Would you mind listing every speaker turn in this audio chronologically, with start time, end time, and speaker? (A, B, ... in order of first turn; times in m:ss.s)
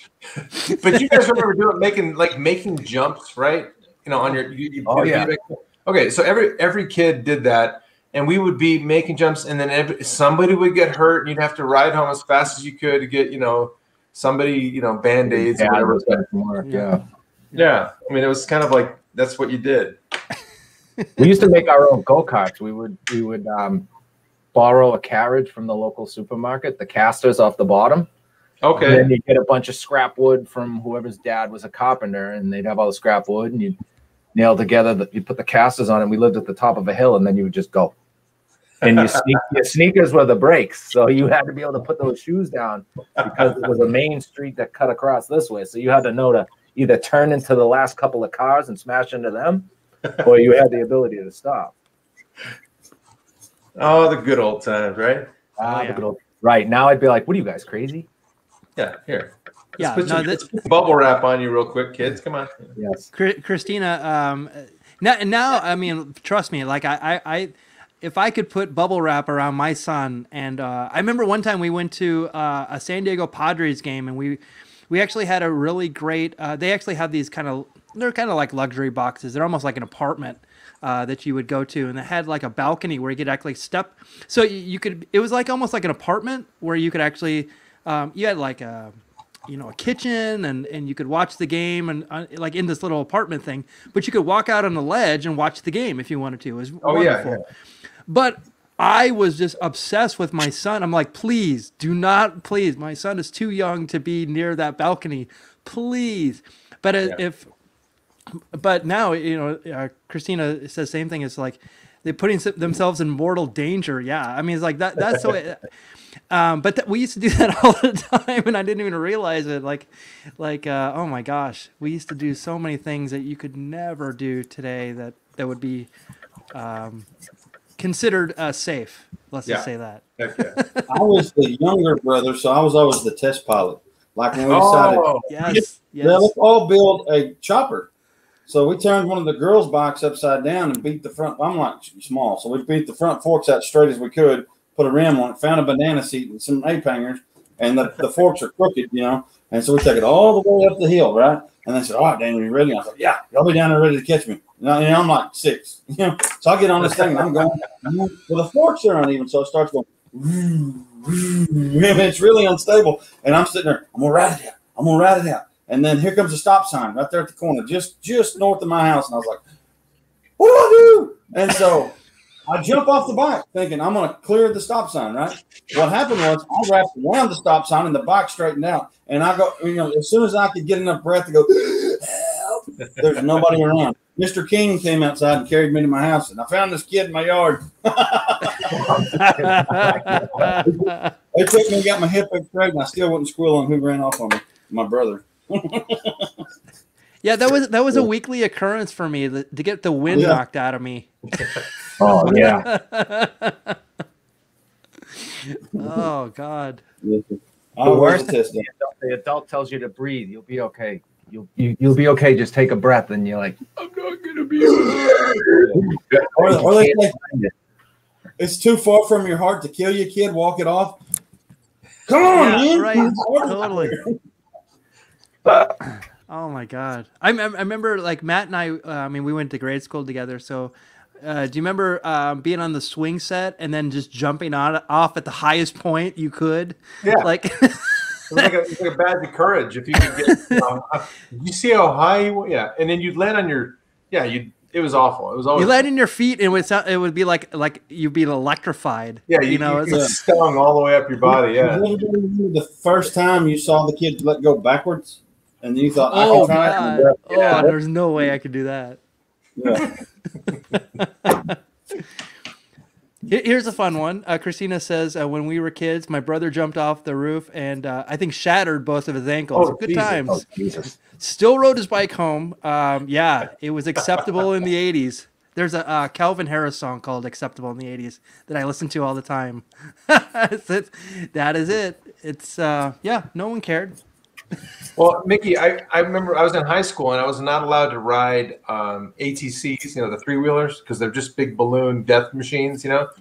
0:00.6-0:01.2 A
0:00.7-0:16.2 B
0:04.9-0:05.3 C
0:15.3-0:17.0 C
0:16.6-0:16.9 A
0:17.5-0:20.0 B
0:21.2-0:23.9 C
0:24.5-0:28.1 C
0:28.6-0:29.1 B
0:28.8-0:33.8 C
0:34.3-0:37.9 C
0:38.8-0:49.7 C
0:50.2-0:51.8 C
0:53.8-0:55.3 B
0:55.6-0:58.1 C
0:55.6-0:56.0 A
0:58.8-1:02.5 B
0:59.8-1:00.5 A
1:02.8-1:03.1 C
1:03.1-1:37.4 A
1:36.8-1:37.4 B
1:38.1-1:47.5 A
1:48.5-1:55.6 A
1:56.3-2:05.9 A
2:06.5-2:07.1 A
2:07.8-2:10.9 A
2:10.2-2:10.6 B
2:10.9-2:17.9 D
2:14.4-2:15.3 B
2:15.3-2:16.3 A
2:18.5-2:49.4 D
2:50.4-2:51.9 D
2:52.5-3:09.0 D
3:08.8-3:10.6 C
3:09.1-3:11.1 A
3:10.6-3:16.3 D
3:17.2-3:21.5 A
3:20.1-3:20.4 D
3:22.0-3:22.7 C
3:22.1-3:23.8 A
3:25.1-3:26.8 A
3:27.0-3:28.7 D
3:27.8-3:37.5 C
3:35.6-3:35.8 D
3:36.4-3:37.2 D
3:38.4-3:41.0 D
3:42.1-3:44.1 D
3:42.3-3:44.0 A
3:45.4-3:45.7 C
3:45.8-3:58.5 A
3:57.0-3:57.3 B
3:58.3-4:05.8 B
4:00.3-4:00.6 A
4:05.6-4:10.1 A
4:09.3-4:11.9 B
4:09.9-4:10.1 D
4:11.2-4:17.7 D
4:16.1-4:19.0 A
4:16.1-4:17.7 C
4:19.6-4:19.9 D
4:21.0-4:22.0 A
4:23.3-4:30.4 A
4:29.5-4:30.1 B
4:30.0-4:30.9 C
4:31.1-4:44.0 A
4:45.0-4:53.1 B